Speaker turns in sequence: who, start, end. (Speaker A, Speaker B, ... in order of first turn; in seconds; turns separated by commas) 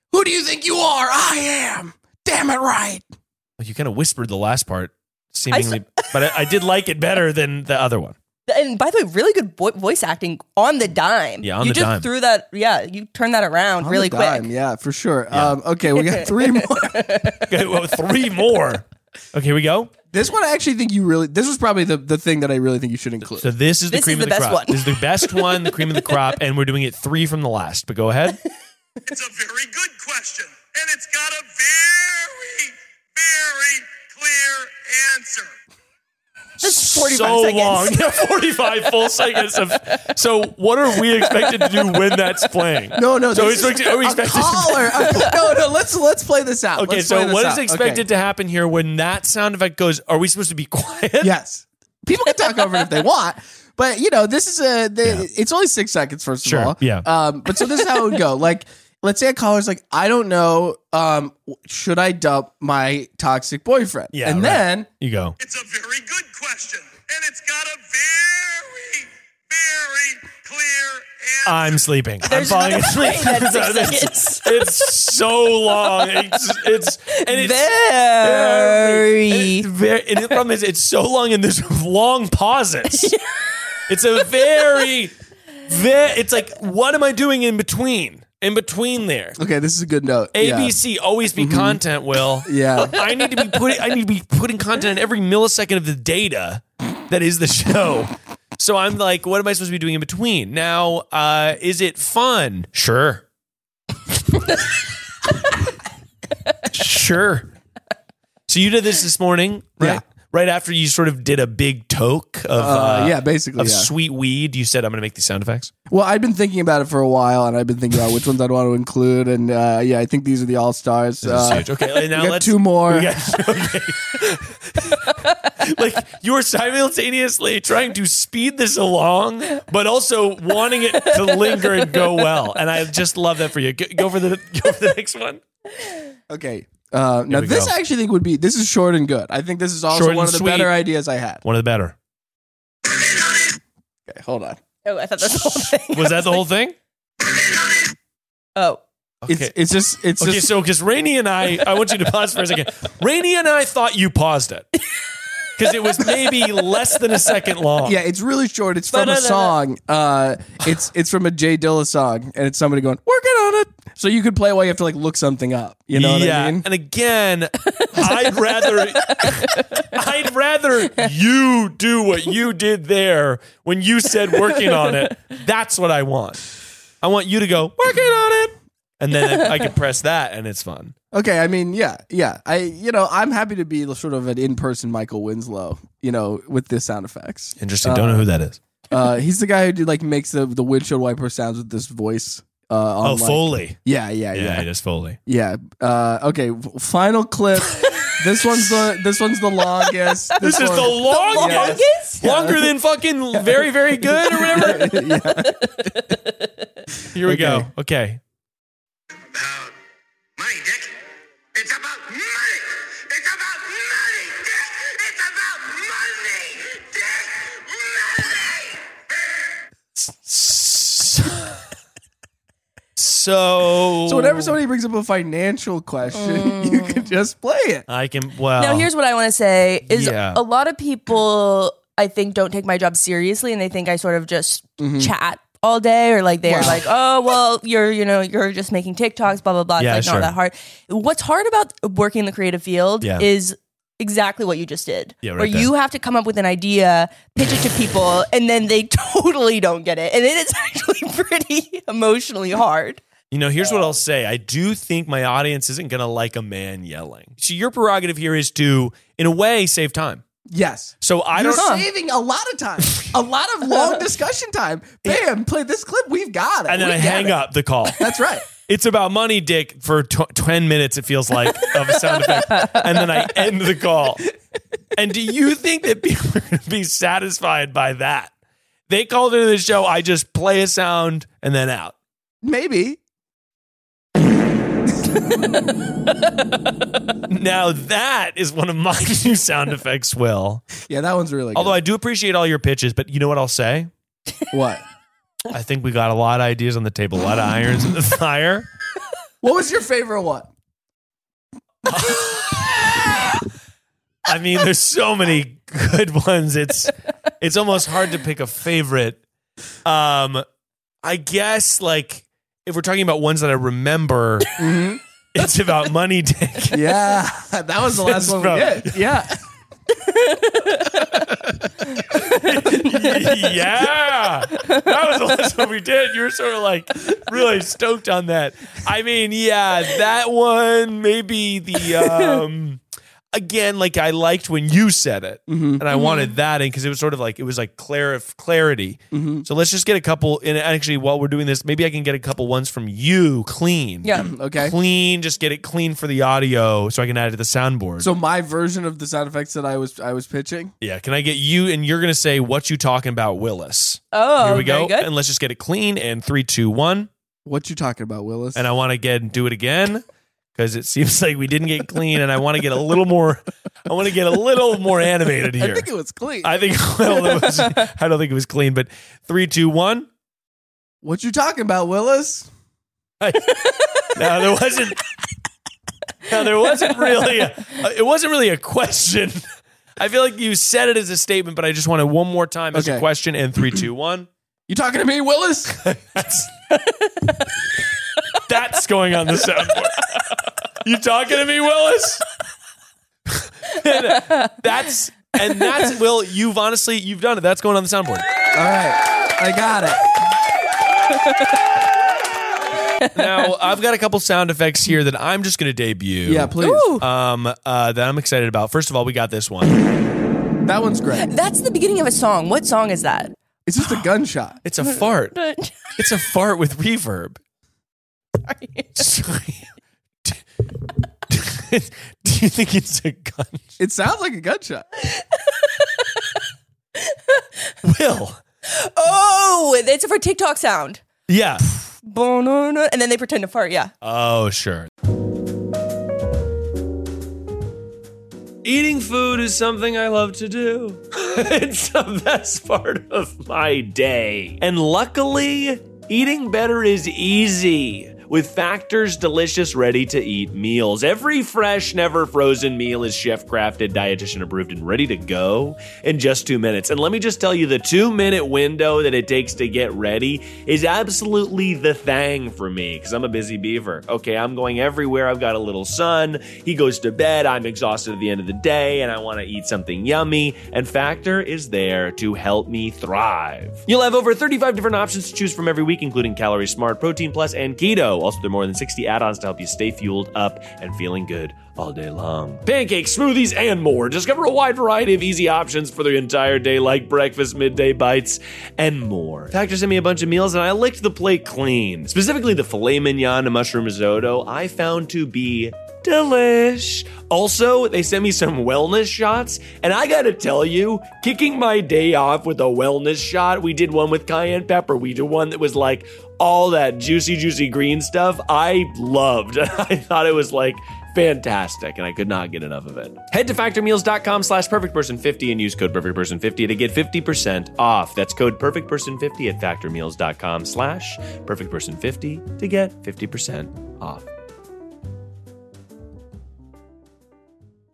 Speaker A: 0.1-3.0, Speaker B: 3.6-8.2, Speaker C: 5.5-6.4, Speaker C: 8.5-14.4, Speaker B: 11.4-12.1, Speaker A: 13.8-17.2, Speaker B: 15.3-15.6, Speaker C: 15.9-17.5, Speaker B: 17.4-19.9, Speaker A: 20.1-23.5, Speaker B: 23.4-28.4, Speaker C: 23.9-26.2, Speaker B: 29.1-35.4, Speaker B: 36.6-45.3, Speaker C: 36.6-38.1, Speaker A: 42.9-48.0, Speaker B: 46.8-51.4, Speaker A: 51.2-64.9, Speaker C: 52.4-53.0, Speaker B: 56.4-57.1, Speaker C: 57.6-58.2, Speaker B: 64.1-65.4, Speaker D: 65.5-68.1, Speaker B: 65.9-69.0, Speaker D: 69.7-71.2, Speaker B: 71.4-83.1, Speaker C: 72.2-74.9, Speaker C: 77.1-79.7, Speaker C: 82.9-83.4, Speaker B: 83.9-85.1, Speaker C: 84.2-84.6, Speaker B: 85.7-89.4, Speaker A: 89.4-90.8, Speaker B: 90.3-103.2, Speaker A: 91.4-91.8, Speaker A: 92.4-93.0, Speaker B: 106.7-107.5, Speaker B: 108.5-115.7, Speaker A: 112.6-113.9, Speaker A: 115.9-123.1, Speaker B: 121.2-135.4, Speaker C: 131.1-132.0, Speaker A: 136.3-141.4, Speaker B: 137.3-137.7, Speaker B: 139.9-140.8, Speaker B: 141.4-141.9, Speaker A: 144.1-144.6, Speaker C: 144.8-146.4, Speaker B: 145.9-146.8, Speaker C: 148.6-148.8, Speaker B: 149.2-149.5, Speaker A: 149.3-150.6, Speaker B: 150.2-154.7, Speaker B: 155.6-158.0, Speaker A: 157.8-166.7, Speaker B: 158.9-159.6, Speaker B: 165.9-176.5, Speaker C: 167.7-169.9, Speaker C: 174.3-175.1, Speaker B: 177.0-180.9, Speaker A: 181.1-188.3, Speaker B: 187.6-188.6, Speaker A: 188.9-194.7, Speaker B: 193.0-193.8, Speaker B: 194.3-195.2, Speaker A: 195.3-202.7, Speaker C: 200.3-202.5, Speaker B: 200.4-205.0, Speaker A: 203.3-205.9, Speaker C: 204.6-206.7, Speaker B: 207.1-208.2, Speaker A: 207.2-207.7, Speaker D: 210.4-210.9, Speaker D: 211.6-212.6, Speaker D: 213.1-217.1, Speaker B: 220.0-221.6, Speaker B: 223.0-224.6, Speaker A: 224.1-227.9, Speaker C: 226.1-227.1, Speaker B: 227.9-228.9, Speaker C: 228.6-253.0, Speaker B: 229.9-230.4, Speaker A: 234.8-235.1, Speaker A: 236.5-236.8, Speaker B: 239.8-240.3, Speaker B: 243.0-243.3, Speaker B: 245.2-245.7, Speaker B: 253.3-260.2, Speaker A: 260.5-267.4, Speaker B: 261.0-261.7, Speaker C: 261.5-261.8, Speaker B: 266.7-268.0, Speaker A: 268.0-268.4, Speaker B: 268.6-274.2, Speaker B: 274.9-278.3, Speaker B: 278.9-281.9, Speaker A: 282.4-283.0, Speaker B: 287.3-290.8, Speaker A: 290.9-291.8, Speaker B: 291.5-293.9, Speaker A: 294.5-294.8, Speaker B: 295.5-298.7, Speaker A: 299.4-300.5, Speaker B: 301.9-303.1, Speaker B: 304.3-309.2, Speaker B: 309.9-310.4, Speaker B: 311.0-314.5, Speaker A: 314.6-315.0, Speaker B: 315.3-317.0, Speaker A: 316.7-319.4, Speaker B: 318.0-319.1, Speaker C: 320.1-321.0, Speaker B: 322.1-332.8, Speaker B: 333.3-348.1, Speaker A: 335.5-335.8, Speaker C: 335.9-336.3, Speaker A: 339.1-339.5, Speaker A: 344.2-344.8, Speaker A: 348.0-350.7, Speaker B: 350.8-357.1, Speaker C: 354.1-355.1, Speaker A: 357.5-358.7, Speaker B: 358.6-360.0, Speaker B: 360.6-365.9, Speaker A: 365.6-366.5, Speaker B: 366.4-370.1, Speaker A: 371.0-372.5, Speaker B: 373.2-373.5, Speaker C: 373.5-374.2, Speaker B: 374.1-375.0, Speaker B: 376.3-379.4, Speaker B: 380.0-384.3, Speaker A: 382.7-383.1, Speaker A: 384.7-385.8, Speaker B: 385.7-386.8, Speaker B: 388.5-390.1, Speaker B: 390.8-392.2, Speaker B: 393.3-398.3, Speaker C: 394.1-394.5, Speaker A: 398.5-400.2, Speaker C: 401.1-401.5, Speaker C: 403.0-403.5, Speaker B: 403.2-409.8, Speaker A: 406.3-406.9, Speaker C: 406.6-407.1, Speaker A: 410.6-411.3, Speaker C: 411.2-414.0, Speaker A: 413.7-414.6, Speaker B: 414.6-415.4, Speaker C: 414.8-415.9, Speaker B: 416.0-417.4, Speaker C: 418.4-419.1, Speaker B: 419.0-419.7, Speaker B: 421.3-423.7, Speaker A: 423.8-424.9, Speaker C: 425.0-426.2, Speaker C: 427.0-427.7, Speaker B: 427.8-428.4, Speaker C: 428.7-431.0, Speaker B: 431.3-431.6, Speaker C: 431.7-433.9, Speaker B: 434.0-434.9, Speaker B: 438.6-524.3